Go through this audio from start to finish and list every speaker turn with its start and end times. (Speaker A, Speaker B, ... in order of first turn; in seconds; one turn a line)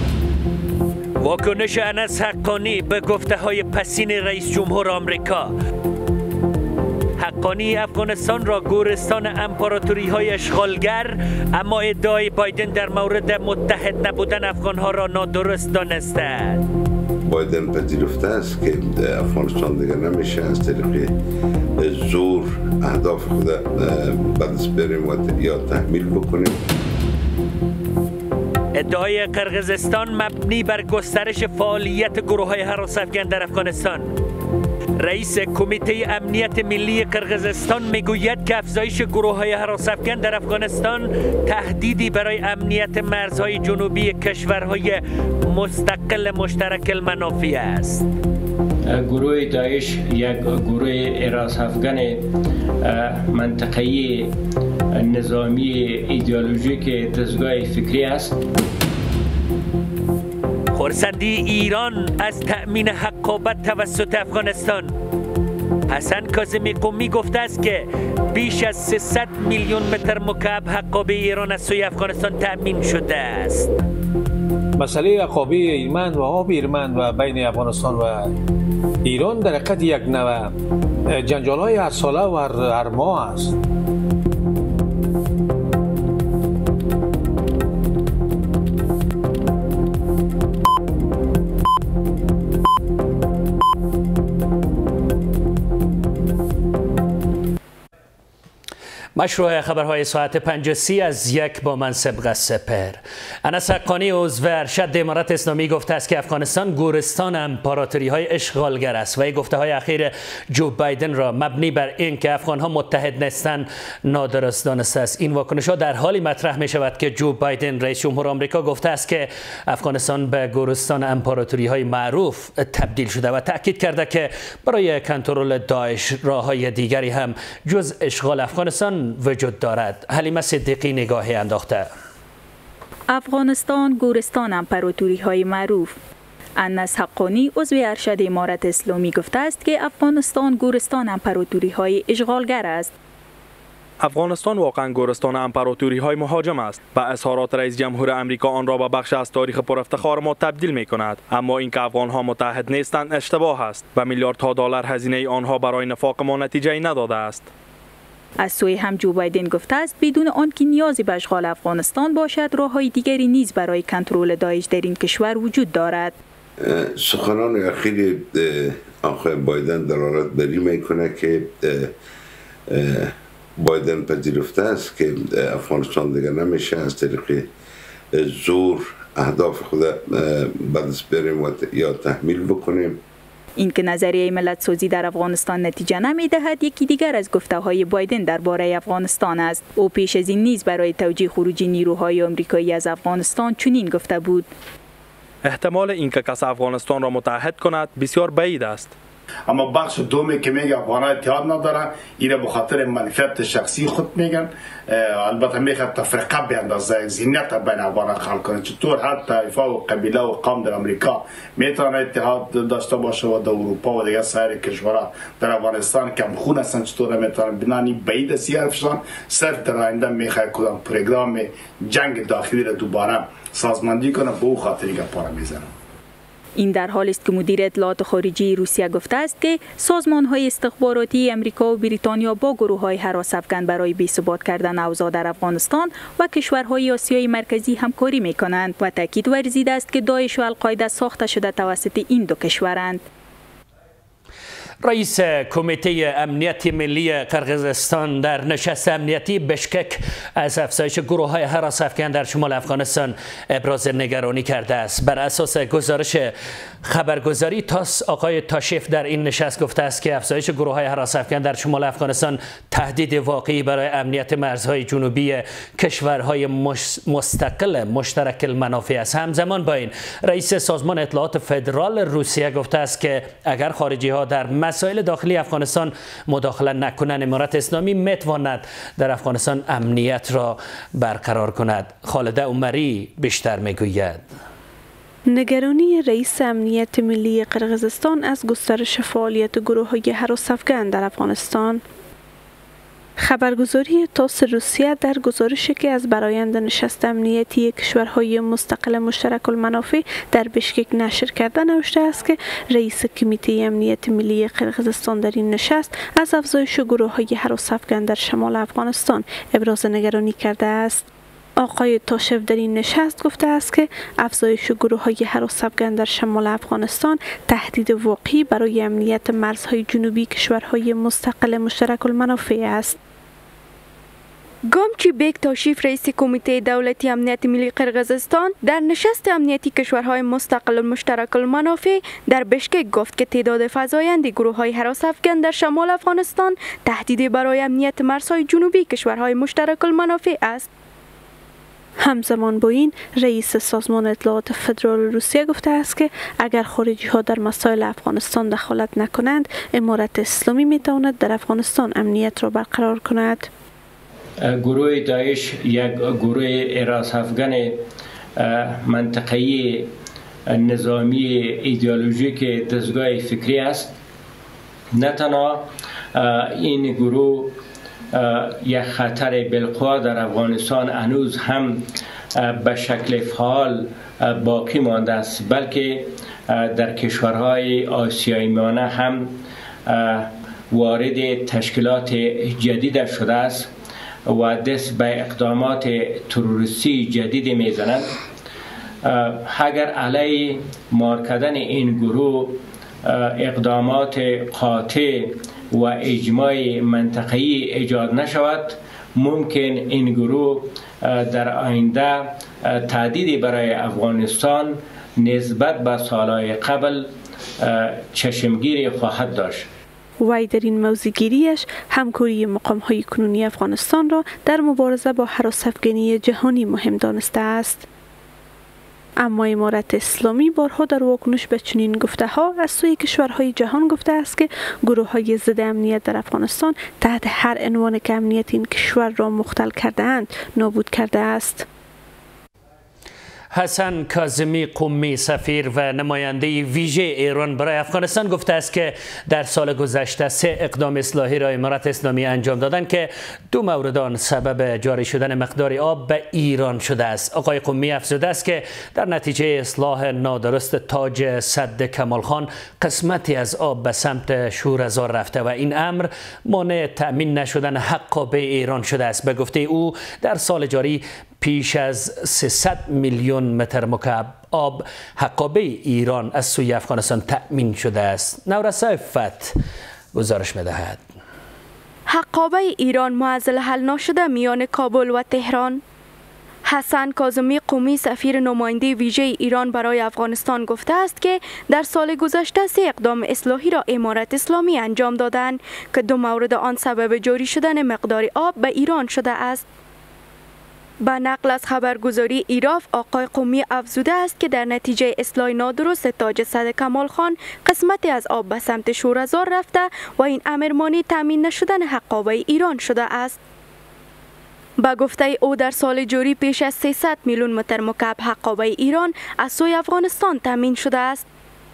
Speaker A: 1.2-5.5
Speaker A: 7.2-16.6
Speaker B: 17.2-21.1
Speaker B: 21.8-26.6
Speaker A: 28.7-34.1
Speaker A: 35.0-48.0
Speaker C: 48.9-52.2
Speaker C: 52.8-54.3
Speaker C: 54.9-58.4
Speaker A: 60.7-64.9
Speaker A: 65.9-73.7
Speaker D: 74.8-78.3
Speaker D: 79.0-80.5
Speaker D: 81.1-83.5
Speaker A: 99.2-131.9
Speaker E: 133.1-136.0
Speaker E: 136.6-142.9
Speaker F: 144.0-157.5
Speaker E: 158.4-166.1
Speaker B: 166.6-171.9
Speaker B: 172.7-177.5
Speaker B: 178.1-183.0
Speaker E: 183.6-194.5
Speaker F: 195.4-198.9
Speaker G: 199.5-225.7
Speaker E: 226.6-243.0
Speaker A: 244.8-284.2
Speaker H: 285.3-291.8
Speaker H: 293.2-311.1
Speaker H: 311.6-322.9
Speaker I: 324.7-340.7
Speaker H: 342.0-353.5
Speaker C: 354.4-357.8
Speaker C: 358.4-359.9
Speaker C: 360.5-363.9
Speaker C: 364.9-367.6
Speaker C: 368.1-371.8
Speaker C: 372.4-383.7
Speaker C: 384.3-388.1
Speaker C: 389.0-409.7
Speaker H: 410.2-417.9
Speaker H: 419.2-431.6
Speaker A: 433.5-469.5
Speaker A: 470.1-471.0
Speaker I: 472.1-475.8
Speaker I: 476.6-489.6
Speaker I: 491.0-503.4
Speaker I: 504.8-511.2